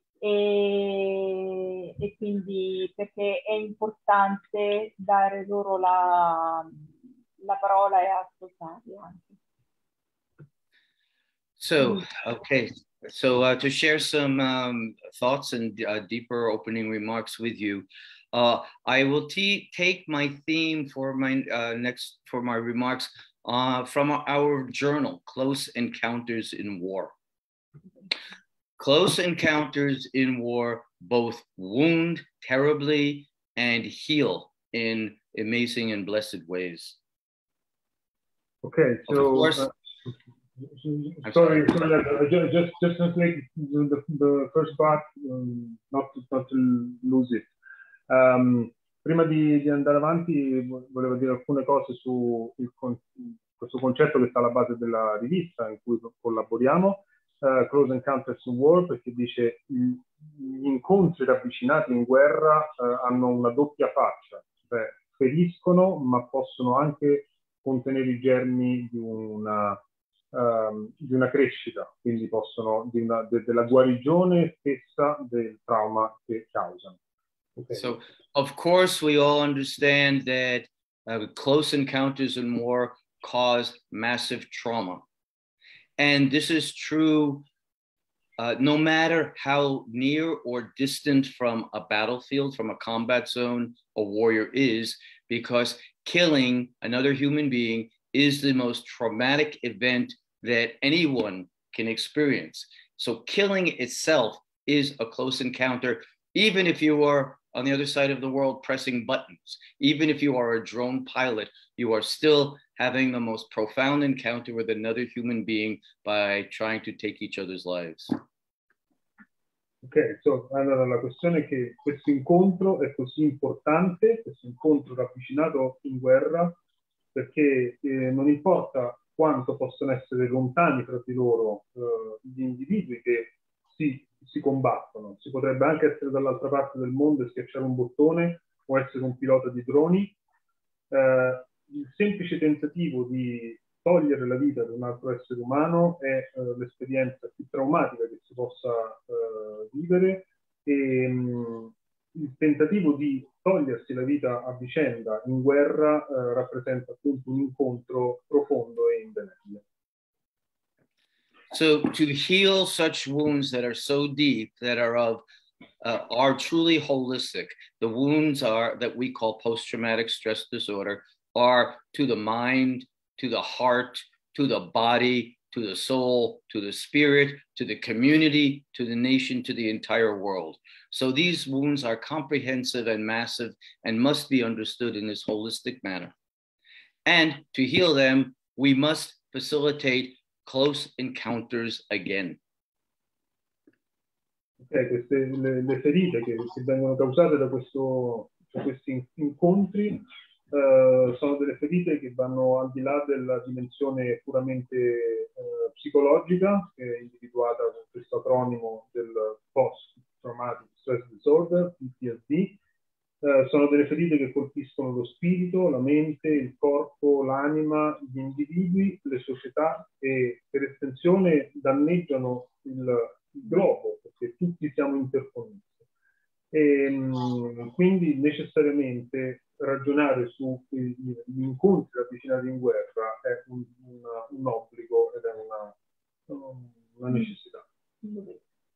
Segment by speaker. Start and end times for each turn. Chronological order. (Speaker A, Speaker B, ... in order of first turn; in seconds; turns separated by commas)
Speaker A: 0.2-6.8, Speaker A: 7.4-9.3, Speaker B: 11.6-27.1, Speaker B: 28.8-37.0, Speaker C: 38.6-47.5, Speaker B: 39.1-39.6, Speaker B: 41.2-41.9, Speaker C: 48.1-69.8, Speaker C: 70.3-77.0, Speaker C: 77.5-77.9, Speaker B: 77.7-85.0, Speaker B: 86.0-87.5, Speaker B: 88.4-118.1, Speaker C: 119.8-126.6, Speaker C: 127.1-140.1, Speaker C: 140.9-159.6, Speaker B: 161.5-165.2, Speaker B: 165.8-186.1, Speaker B: 187.1-192.4, Speaker C: 194.6-212.6, Speaker C: 213.2-225.8, Speaker C: 226.5-235.7, Speaker C: 236.3-237.6, Speaker A: 238.0-238.4